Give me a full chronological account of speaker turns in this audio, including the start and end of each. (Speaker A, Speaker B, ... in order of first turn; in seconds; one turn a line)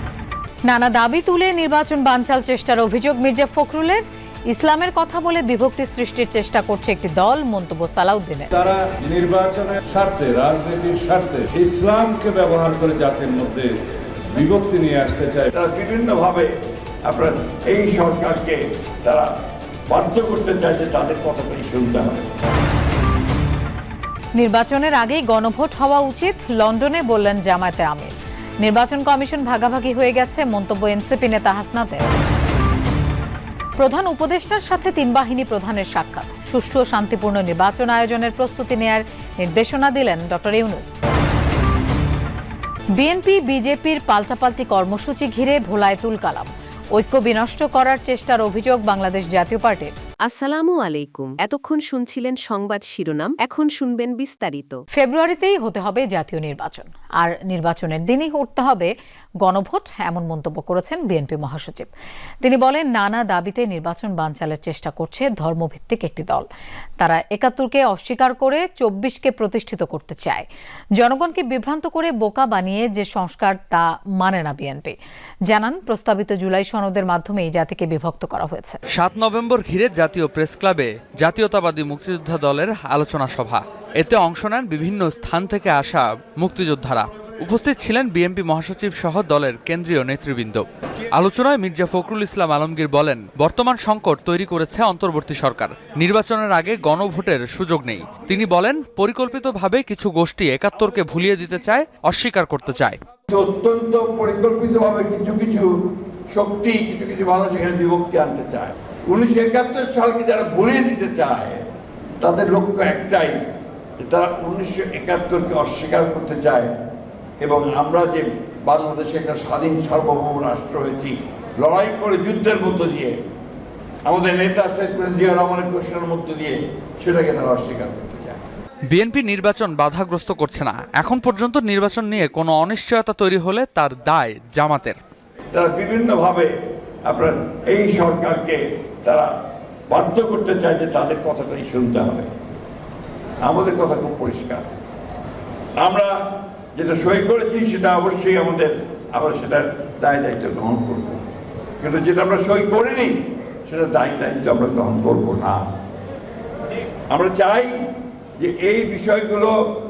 Speaker A: 0.7-8.5
Speaker B: 8.5-13.7
Speaker B: 14.3-15.5
Speaker C: 15.5-16.5
Speaker C: 17.0-19.3
Speaker C: 19.9-22.2
Speaker A: 24.4-32.1
Speaker A: 33.8-40.9
Speaker A: 43.0-49.9
Speaker D: 50.2-54.8
Speaker A: 55.0-58.9
Speaker A: 59.4-61.9
Speaker A: 62.4-66.5
Speaker A: 67.0-70.5
Speaker A: 71.0-75.0
Speaker A: 75.5-78.8
Speaker E: 78.9-103.0
Speaker C: 103.3-105.7
Speaker C: 106.3-111.6
Speaker C: 112.2-113.4
Speaker C: 114.0-116.7
Speaker C: 117.4-123.1
Speaker C: 124.1-128.4
Speaker E: 128.9-135.0
Speaker C: 135.5-136.5
Speaker C: 137.1-139.3
Speaker C: 139.9-142.3
Speaker C: 143.4-144.7
Speaker C: 145.8-146.1
Speaker C: 146.8-151.2
Speaker C: 151.8-155.6
Speaker C: 157.1-157.7
Speaker C: 158.4-159.5